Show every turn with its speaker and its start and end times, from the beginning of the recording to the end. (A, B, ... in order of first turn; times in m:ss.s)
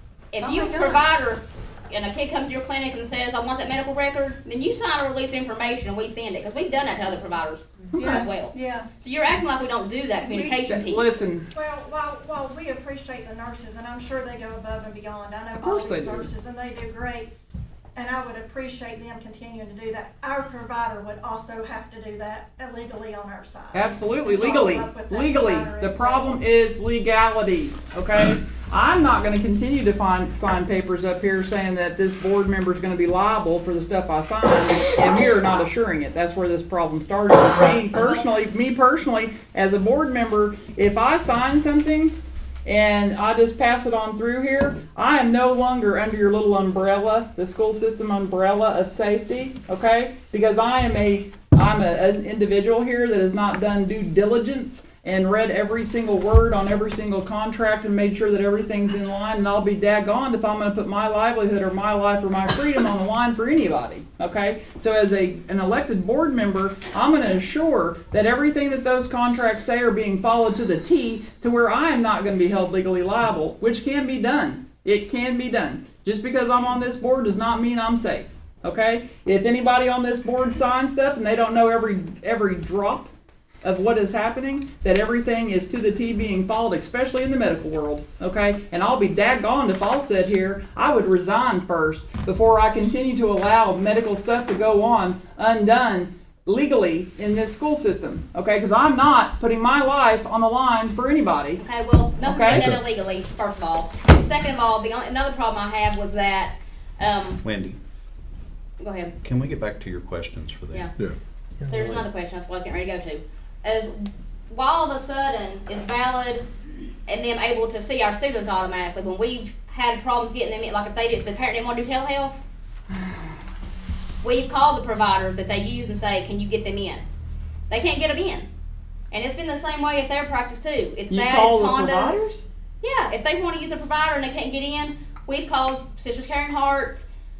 0:00.3-0:11.1 A
0:00.4-0:01.1 B
0:07.9-0:08.2 C
0:08.0-0:08.9 B
0:10.2-0:17.3 B
0:10.7-0:11.5 C
0:15.6-0:16.3 C
0:18.0-0:26.4 B
0:23.7-0:42.1 C
0:37.8-0:38.3 A
0:42.6-1:23.1 C
1:23.6-1:41.6 C
1:41.6-1:47.4 A
1:42.2-1:42.7 C
1:42.5-1:42.8 D
1:47.4-1:47.8 D
1:48.8-1:49.2 A
1:49.2-1:51.2 D
1:51.6-1:56.5 A
1:51.8-1:52.0 D
1:57.1-2:02.4 A
2:04.2-2:07.0 A
2:07.7-2:08.5 A
2:09.1-2:17.1 A
2:11.1-2:12.4 C